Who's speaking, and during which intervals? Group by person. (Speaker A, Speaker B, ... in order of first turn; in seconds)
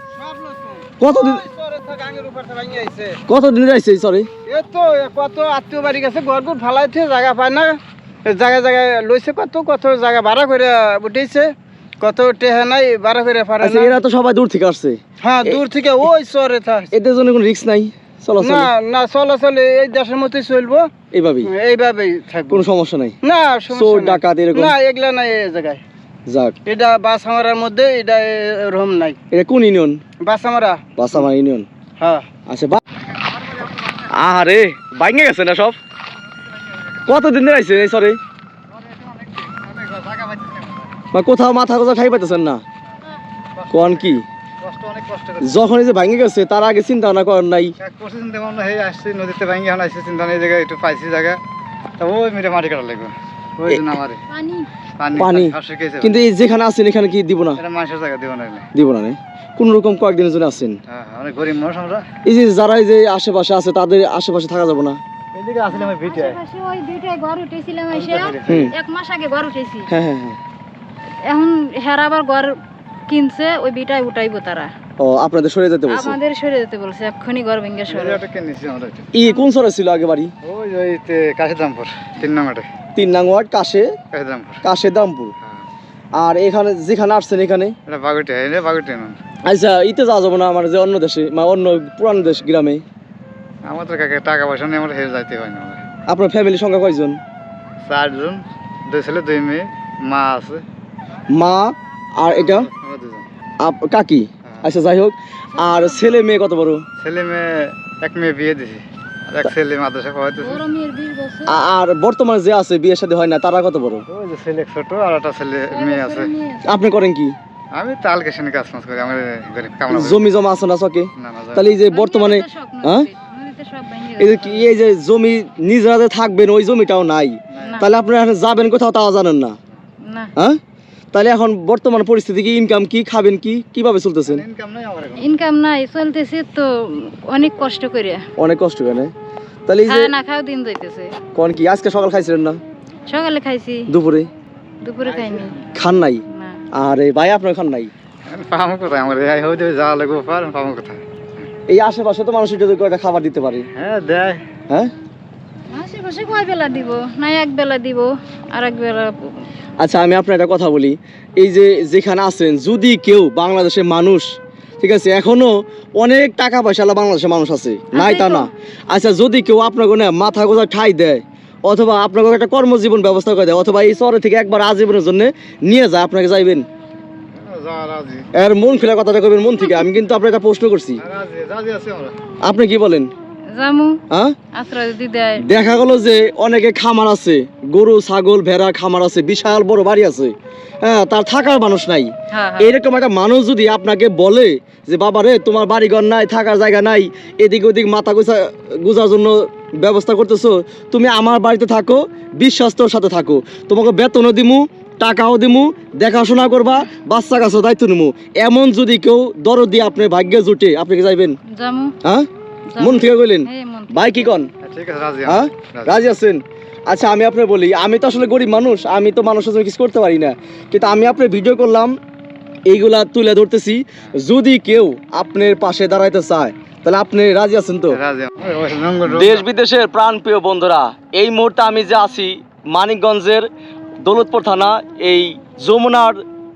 Speaker A: 0.1-3.2, 4.5-14.0, 15.2-16.9, 18.4-20.9, 21.4-22.6, 23.2-25.8, 26.7-29.2, 30.2-30.8, 32.0-32.3
Speaker B: 1.0-1.4, 3.3-4.3, 13.6-15.6, 16.9-18.7, 21.1-21.5, 22.5-23.2, 23.7-24.8, 26.3-26.6, 29.3-30.0, 31.0-31.7, 32.5-32.8, 33.9-35.8, 37.1-38.2, 41.1-42.6, 43.7-44.2, 45.4-47.7, 55.2-57.6, 58.7-60.8, 62.2-65.0, 68.5-68.7, 69.9-70.4, 75.0-76.2, 79.1-80.3, 83.0-83.9, 84.6-85.3, 86.2-87.8, 89.5-92.8, 96.1-97.2, 101.3-102.7, 103.6-106.8, 111.5-114.0, 116.7-117.3, 119.9-123.1, 124.2-129.6, 131.1-134.4, 138.4-139.1, 139.7-140.1, 141.3-142.6, 143.9-144.3, 145.8-147.9, 151.7-153.7, 159.8-176.7, 178.3-181.0, 182.4-183.1, 184.1-184.3, 185.4-211.4, 212.8-214.5, 215.3-222.0, 222.7-228.0, 229.1-233.5, 234.0-236.2
Speaker C: 38.7-40.9, 43.5-45.5, 47.8-51.4, 52.0-54.2, 55.0-56.2, 57.6-58.7, 60.9-62.0, 65.3-66.4, 67.9-68.7, 77.9-79.1, 80.4-82.7, 84.1-84.6, 87.9-89.2, 93.6-95.8, 97.8-100.6, 102.3-103.3, 104.5-104.7, 107.0-110.6, 114.1-116.3, 117.7-120.2, 121.2-121.7, 127.5-127.8, 134.3-135.2, 145.1-145.5, 148.3-151.5, 153.8-154.4, 177.5-178.3, 181.0-182.2, 214.6-216.1, 227.9-229.4
Speaker D: 54.3-54.7, 65.7-69.9, 71.3-72.6, 73.1-74.7, 75.9-78.2, 105.6-106.0, 110.4-111.7, 115.7-116.7, 121.9-124.6, 127.6-127.9, 130.0-130.3, 135.2-138.2, 139.9-141.1, 143.1-143.9, 144.8-145.6, 146.3-146.6, 155.7-159.3, 167.9-168.5, 183.5-184.0, 184.5-185.4, 192.3-192.7, 211.5-211.9, 212.7-214.3